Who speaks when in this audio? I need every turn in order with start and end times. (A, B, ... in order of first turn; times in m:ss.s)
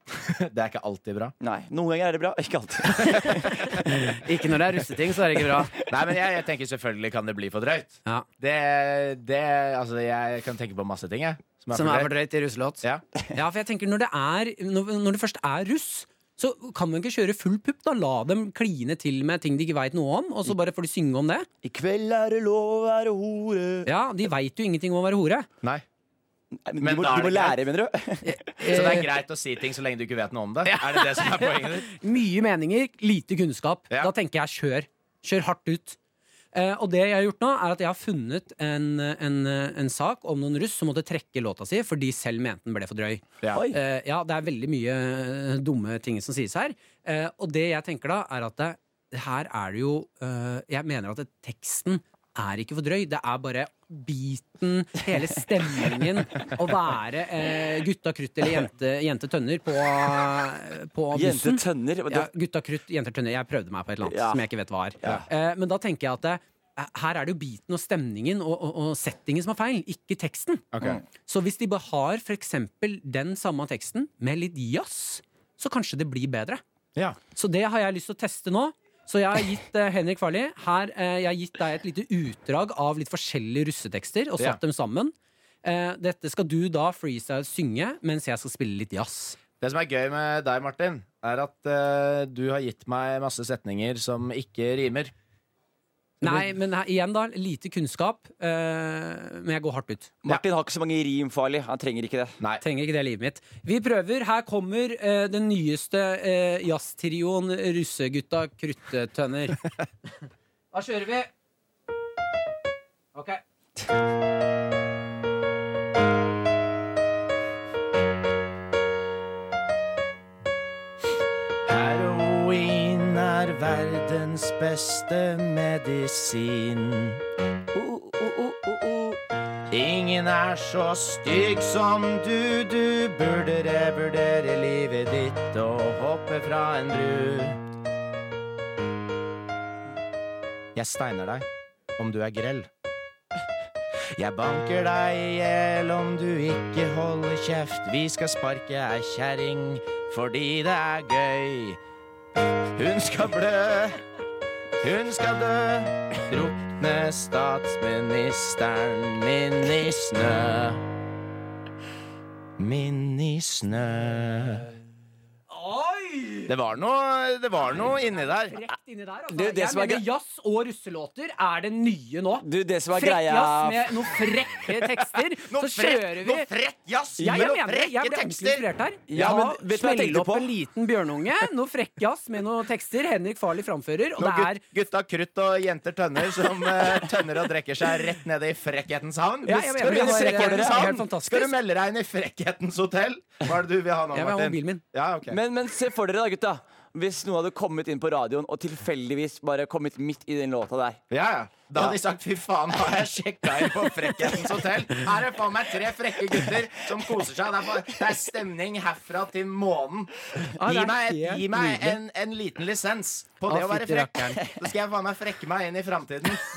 0:00.1-0:01.3 A
0:01.4-0:04.3 B
0:03.6-0:05.7 C
0:05.2-0:06.2 B
0:05.9-0:12.1 A
0:11.7-0:21.4 C
0:21.6-0:23.9 B
0:23.8-0:25.5 C
0:26.6-0:29.0 B
0:26.8-0:27.6 A
0:28.2-0:29.1 C
0:28.6-0:31.9 A
0:30.6-0:36.0 C
0:36.5-1:10.6 C
0:43.5-0:43.8 B
1:01.1-1:02.3 B
1:04.0-1:04.4 B
1:10.7-1:11.0 A
1:11.2-1:16.6 C
1:17.3-1:29.4 C
1:29.6-1:35.1 A
1:36.2-1:40.1 C
1:40.2-1:42.4 B
1:42.6-1:49.6 C
1:50.7-1:51.3 C
1:53.1-1:53.4 C
2:01.7-2:07.2 A
2:07.7-2:09.2 B
2:09.7-2:17.6 A
2:20.7-2:21.4 A
2:22.0-2:22.7 A
2:24.2-2:31.8 A
2:32.8-2:34.0 A
2:34.8-2:40.8 A
2:42.6-2:44.6 A
2:45.5-2:46.5 C
2:46.5-2:48.6 A
2:47.7-2:56.5 C
2:49.3-2:50.0 B
2:52.4-2:54.0 B
2:55.4-2:58.6 A
2:57.2-2:57.5 B
2:57.2-3:04.6 C
2:59.1-3:00.5 B
3:04.2-3:15.4 A
3:06.8-3:07.1 B
3:09.4-3:11.6 C
3:09.5-3:11.1 B
3:14.1-3:14.8 C
3:15.3-3:21.0 B
3:21.1-3:36.4 A
3:30.6-3:32.0 C
3:33.5-3:34.4 C